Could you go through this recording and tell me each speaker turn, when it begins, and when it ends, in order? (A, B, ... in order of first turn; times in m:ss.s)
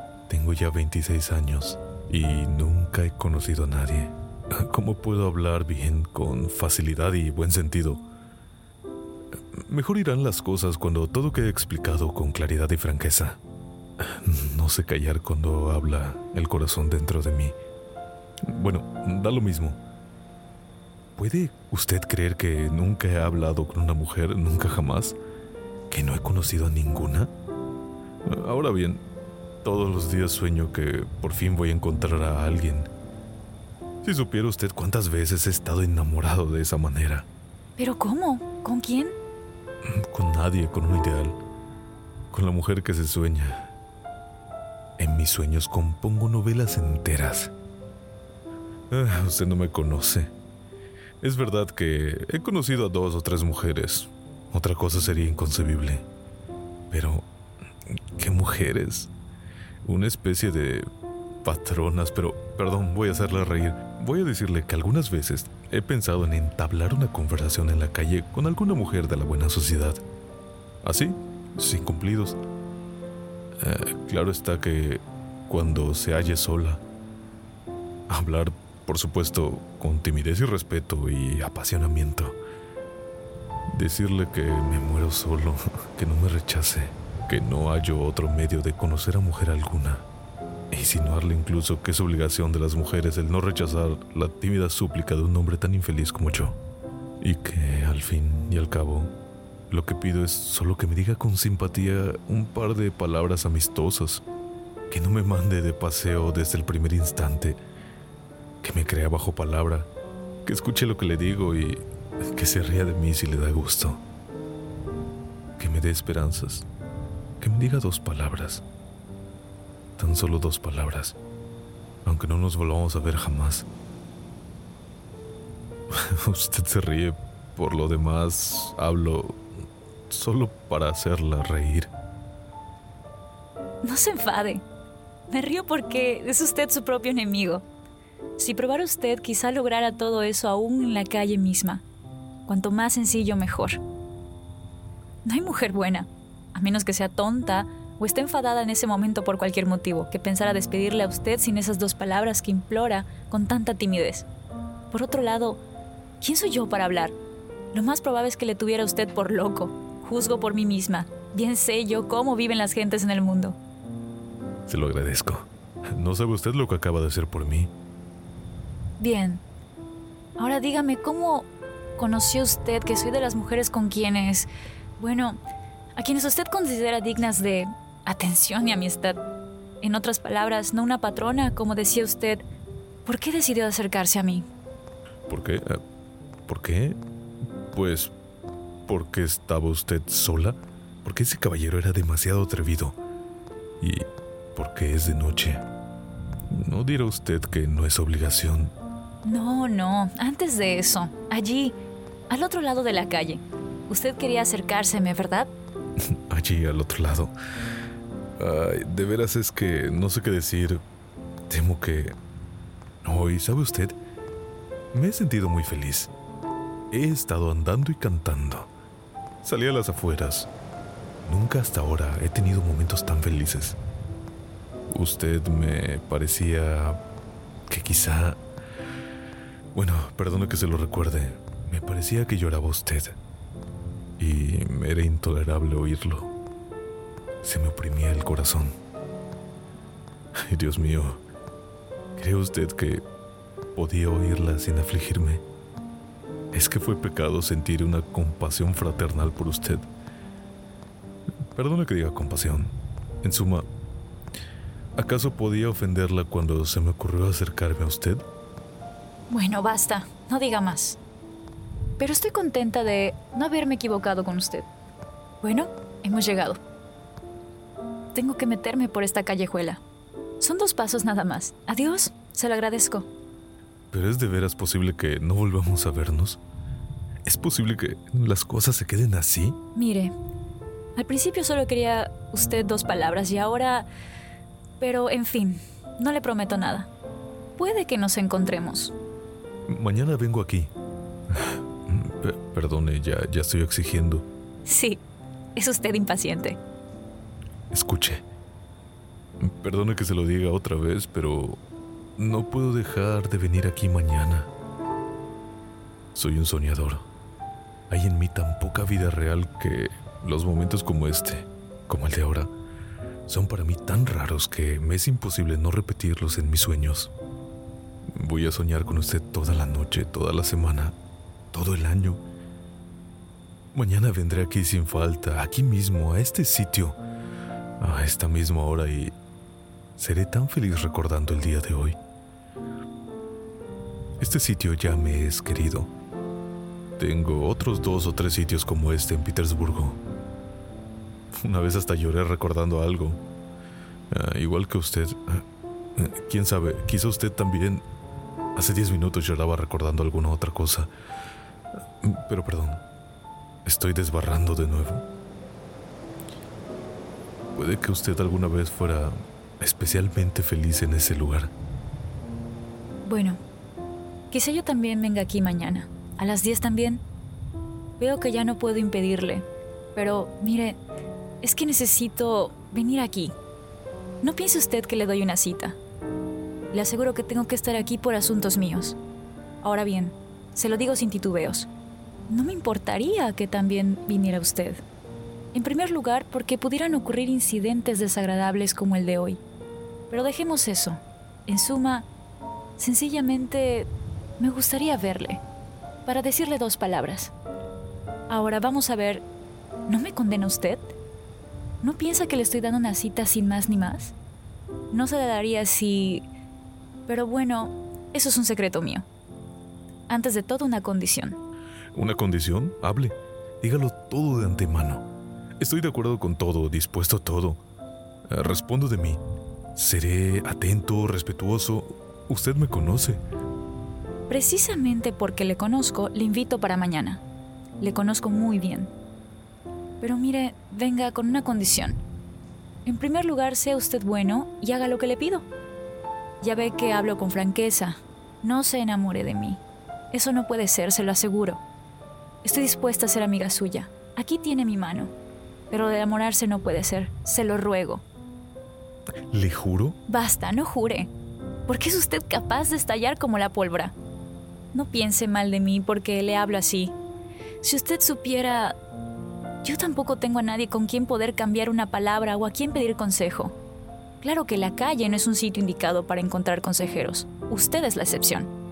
0:00.3-0:08.0 A
0:09.5-0:13.4 A
0:14.0-0:17.6 A
0:18.4-0:19.8 A
0:21.2-0:25.2 A
0:25.9-0:27.3 A
0:28.2-0:29.1 A
0:29.6-0:32.9 A
0:34.0-0:37.3 A
0:37.8-0:39.2 B
0:39.8-0:41.4 A
0:42.3-0:43.7 A
0:45.0-0:47.5 A
0:48.9-0:50.3 A
0:51.2-0:56.1 A
0:56.9-0:57.3 A
0:58.2-0:59.1 A
0:59.8-1:00.9 A
1:01.4-1:10.0 A
1:10.8-1:12.4 A
1:13.6-1:16.8 A
1:18.1-1:22.4 A
1:23.7-1:30.1 A
1:30.7-1:36.6 A
1:37.2-1:39.2 A
1:39.7-1:44.2 A
1:44.9-1:47.6 A
1:48.6-1:49.9 A
1:50.4-1:54.0 A
1:55.6-1:56.7 A
1:57.4-1:58.6 A
2:00.0-2:01.2 A
2:02.0-2:03.7 A
2:05.9-2:09.4 A
2:10.1-2:11.9 A
2:13.8-2:14.6 B
2:15.3-2:17.7 B
2:18.4-2:21.8 B
2:22.5-2:23.8 B
2:25.2-2:34.3 B
2:34.9-2:35.6 B
2:36.2-2:37.2 B
2:37.7-2:43.6 B
2:44.7-2:47.7 A
2:49.0-2:49.4 B
2:50.4-2:55.4 B
2:56.0-2:59.2 B
2:59.8-3:02.4 B
3:03.0-3:04.5 B
3:05.3-3:05.8 A
3:06.5-3:07.0 A
3:07.7-3:08.1 A
3:08.9-3:13.0 A
3:13.8-3:15.7 A
3:16.5-3:18.8 A
3:19.2-3:21.8 B
3:22.3-3:25.5 B
3:26.1-3:27.4 A
3:28.4-3:30.8 A
3:31.5-3:32.2 A
3:33.0-3:34.0 A
3:34.9-3:36.1 A
3:36.9-3:38.7 A
3:39.4-3:40.5 A
3:41.2-3:43.8 A
3:44.9-3:47.0 A
3:47.7-3:48.4 A
3:49.7-3:53.2 A
3:54.2-3:56.3 A
3:57.4-3:58.8 A
4:00.4-4:01.2 A
4:02.2-4:03.0 A
4:03.7-4:05.4 A
4:06.5-4:09.9 A
4:11.5-4:13.7 A
4:15.0-4:18.2 A
4:19.3-4:21.0 B
4:22.0-4:24.7 B
4:25.4-4:26.6 B
4:28.1-4:29.8 B
4:30.4-4:33.1 B
4:33.9-4:36.4 A
4:37.3-4:39.6 A
4:39.8-4:40.2 B
4:41.0-4:43.9 B
4:44.8-4:46.9 B
4:47.6-4:49.0 B
4:49.7-4:50.7 A
4:51.3-4:54.3 A
4:54.6-4:55.0 B
4:55.6-4:56.6 B
4:57.7-4:58.3 A
4:59.4-5:01.6 A
5:02.2-5:04.5 A
5:06.1-5:07.1 A
5:07.9-5:12.5 A
5:13.3-5:17.1 A
5:18.1-5:21.0 A
5:21.5-5:22.2 A
5:23.7-5:27.0 A
5:27.8-5:29.2 A
5:30.0-5:32.0 A
5:34.2-5:35.9 A
5:37.0-5:40.0 A
5:41.3-5:43.2 A
5:44.1-5:47.8 A
5:48.6-5:50.9 A
5:52.0-5:52.8 A
5:53.6-5:55.0 A
5:57.6-6:01.5 A
6:03.0-6:03.4 B
6:04.3-6:07.0 B
6:08.0-6:10.8 B
6:11.4-6:13.4 B
6:14.2-6:15.8 B
6:16.7-6:19.0 B
6:19.6-6:21.7 B
6:22.3-6:24.8 B
6:25.5-6:29.4 B
6:30.1-6:32.1 B
6:32.8-6:35.4 B
6:36.0-6:37.3 B
6:38.3-6:39.2 B
6:39.9-6:40.9 B
6:41.8-6:44.1 B
6:44.9-6:46.3 B
6:47.1-6:49.1 B
6:50.1-6:51.4 B
6:51.9-6:55.1 A
6:55.6-6:57.6 A
6:58.3-6:59.2 A
6:59.8-7:03.2 A
7:04.3-7:07.2 B
7:07.8-7:08.9 B
7:10.0-7:12.0 B
7:12.8-7:15.5 B
7:16.4-7:21.6 B
7:22.4-7:25.2 B
7:25.7-7:28.0 B
7:29.3-7:30.0 A
7:30.1-7:31.1 B
7:31.7-7:34.0 B
7:34.7-7:37.0 B
7:37.6-7:38.8 B
7:39.6-7:43.6 B
7:44.2-7:48.5 B